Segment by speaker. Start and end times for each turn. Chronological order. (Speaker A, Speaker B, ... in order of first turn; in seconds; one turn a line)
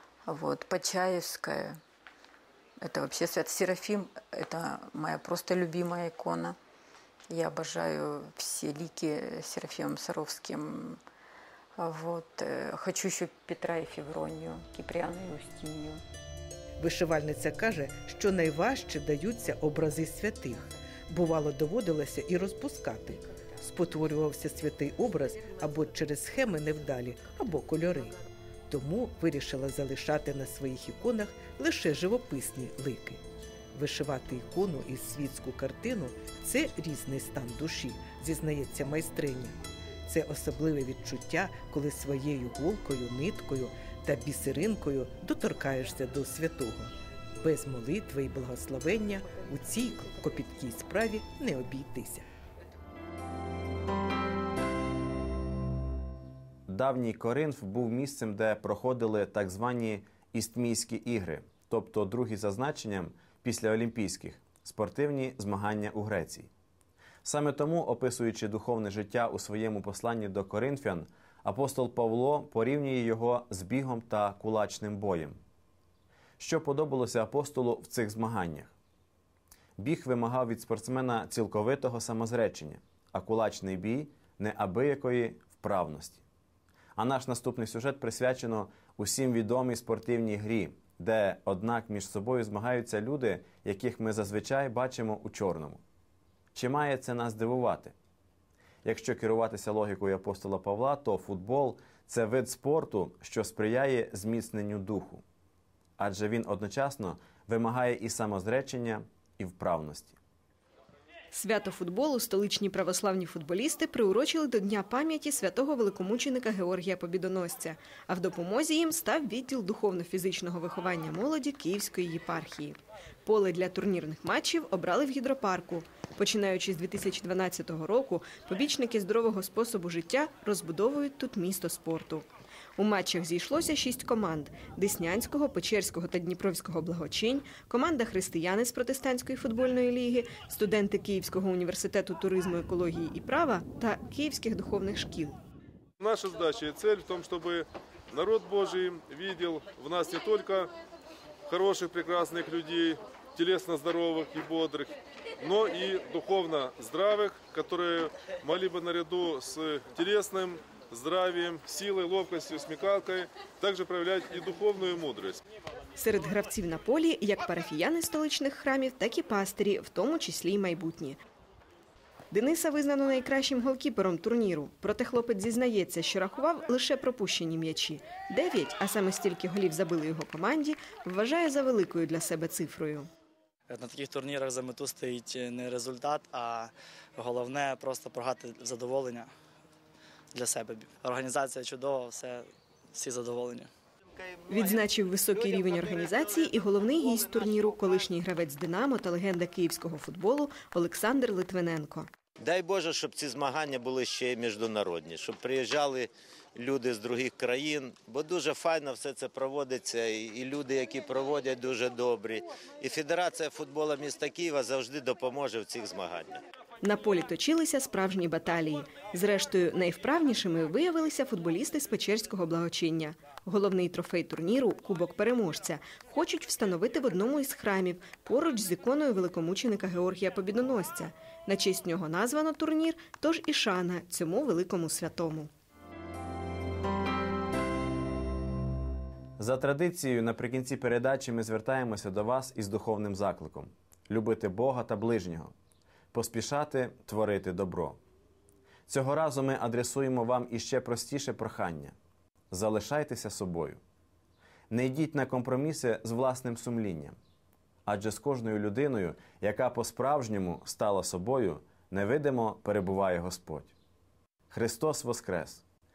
Speaker A: 0.2-1.8
Speaker A: 2.8-6.5
Speaker A: 7.3-11.0
Speaker A: 11.8-16.0
Speaker B: 16.8-28.1
Speaker B: 28.7-33.2
Speaker B: 33.7-39.5
Speaker B: 40.1-52.2
Speaker C: 56.7-66.5
Speaker C: 67.2-75.4
Speaker C: 76.4-78.7
Speaker C: 79.8-86.2
Speaker C: 87.0-95.8
Speaker C: 96.5-97.9
Speaker C: 98.8-105.2
Speaker C: 106.0-110.2
Speaker D: 111.3-145.4
Speaker E: 146.0-150.7
Speaker E: 151.4-165.4
Speaker D: 165.9-171.2
Speaker D: 172.3-183.1
Speaker F: 183.7-189.3
Speaker F: 190.3-193.7
Speaker D: 194.5-202.1
Speaker G: 202.4-216.4
Speaker D: 216.8-235.5
Speaker C: 239.4-245.5
Speaker C: 246.1-248.0
Speaker C: 248.9-251.9
Speaker C: 252.5-253.8
Speaker C: 254.7-257.1
Speaker C: 257.9-263.7
Speaker C: 264.5-265.6